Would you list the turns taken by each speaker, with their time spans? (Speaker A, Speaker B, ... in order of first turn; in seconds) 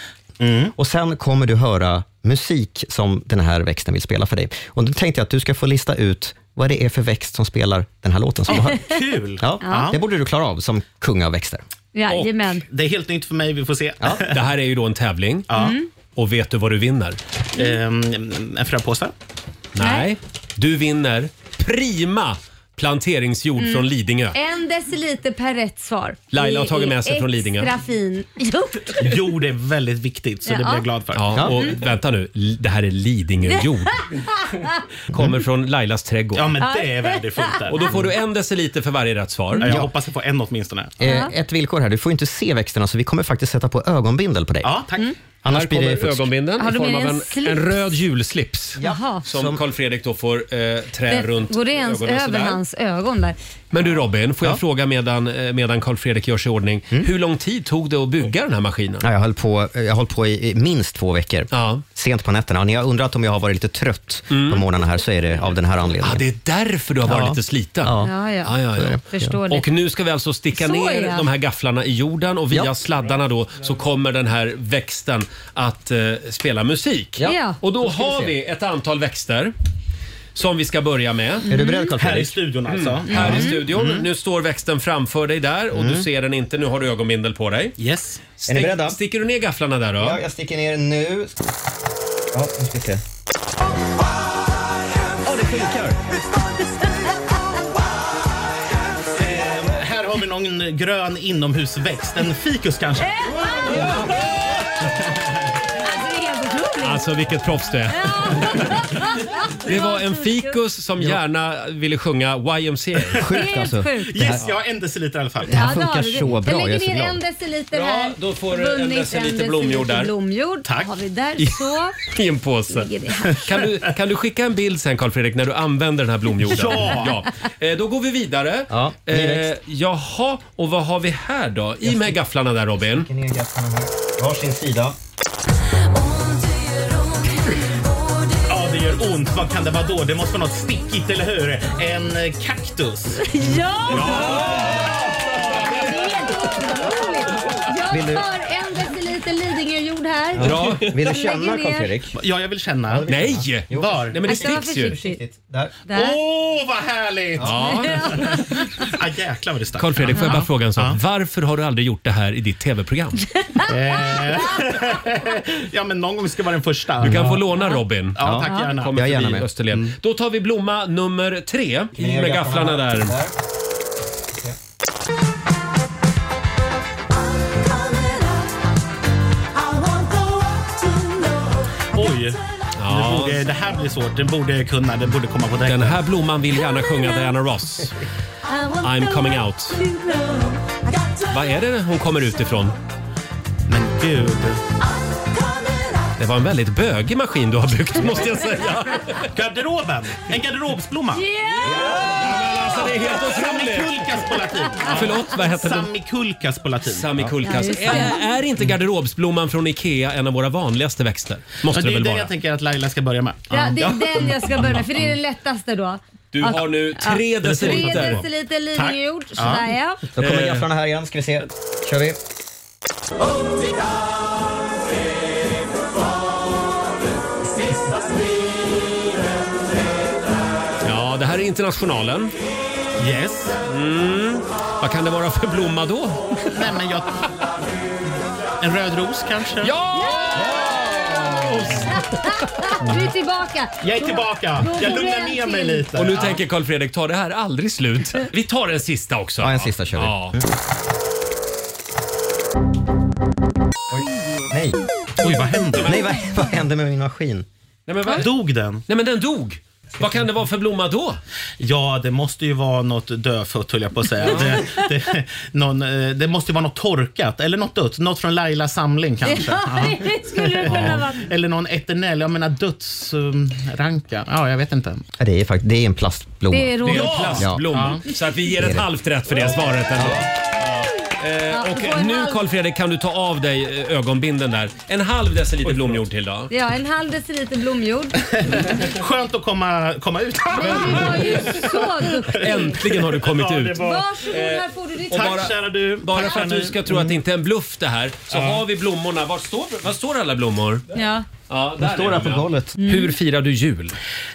Speaker A: 0.4-0.7, 8.5-10.0, 12.7-14.4, 15.5-15.8, 17.5-19.1, 29.0-31.5, 36.3-37.9, 39.6-41.0, 44.6-45.1, 82.0-84.1, 87.8-88.3, 99.1-103.2, 114.0-115.7, 120.6-120.9, 123.6-123.9, 126.4-127.1, 138.4-143.3, 152.1-153.1, 153.7-154.2, 155.9-161.0, 163.7-167.4, 168.1-169.0, 181.9-186.0, 193.7-194.6, 199.3-201.3, 203.1-207.3, 211.6-214.3, 217.4-219.7, 233.0-233.6, 236.5-237.1, 238.6-239.7, 243.8-246.4, 255.2-256.0, 258.1-258.8, 261.6-275.1, 276.9-278.0, 288.5-294.0, 295.1-297.2, 298.3-298.6
Speaker B: 0.8-8.8, 9.4-11.6, 39.6-39.9, 41.0-44.8, 45.4-46.3, 48.8-49.6, 59.0-66.2, 67.0-68.1, 68.7-69.3, 77.2-78.3, 81.5-82.4, 83.1-83.5, 85.7-86.0, 88.5-89.0, 90.0-91.3, 92.3-93.0, 95.2-96.0, 113.1-114.4, 115.5-117.2, 128.7-129.5, 131.8-132.2, 132.8-134.9, 147.9-148.2, 150.4-152.2, 152.9-155.8, 168.2-169.5, 171.9-173.3, 220.2-222.2, 249.4-250.4, 253.9-254.8, 255.8-257.5, 275.2-277.9, 278.6-278.8, 279.9-280.2, 301.8-302.7
Speaker C: 8.5-8.8, 9.6-9.9, 11.9-12.6, 15.5-15.9, 19.8-20.1, 23.6-29.2, 30.4-30.9, 31.4-31.7, 33.5-34.7, 36.6-37.7, 41.0-41.3, 46.6-47.7, 48.8-49.2, 51.1-53.4, 68.0-68.5, 69.0-69.7, 70.5-71.3, 77.2-77.6, 81.5-81.9, 83.2-83.6, 103.0-104.6, 105.8-107.1, 107.9-110.6, 113.3-114.3, 115.5-122.0, 122.7-123.4, 143.2-151.9, 154.3-155.2, 155.9-156.2, 157.6-158.6, 160.1-160.4, 168.4-168.7, 188.5-190.6, 201.1-202.3, 207.4-208.2, 213.5-220.0, 240.0-245.9, 269.2-271.3, 276.5-277.4, 281.5-282.4, 286.5-288.7, 290.5-292.7, 293.7-295.5, 300.9-301.3, 302.8-303.1
Speaker D: 14.2-15.5, 16.1-17.2, 19.7-24.4, 26.3-27.7, 31.1-34.1, 35.1-36.6, 37.7-39.7, 45.5-52.6, 53.7-59.0, 61.5-61.8, 64.3-64.6, 66.0-79.5, 80.3-81.5, 82.7-87.7, 88.4-90.2, 106.8-108.7, 109.6-113.2, 117.7-120.1, 121.4-133.1, 143.9-144.9, 150.4-150.9, 153.1-154.9, 157.4-158.0, 159.8-163.2, 167.0-173.1, 182.8-183.4, 185.6-188.0, 188.8-189.8, 191.3-192.8, 196.2-199.3, 201.6-205.9, 206.9-212.3, 216.3-218.2, 220.2-220.7, 230.8-232.3, 233.7-236.2, 239.6-242.1, 245.9-250.4, 257.9-258.3, 258.9-261.2, 276.8-286.5, 290.7-291.4, 292.3-300.8, 301.5-303.9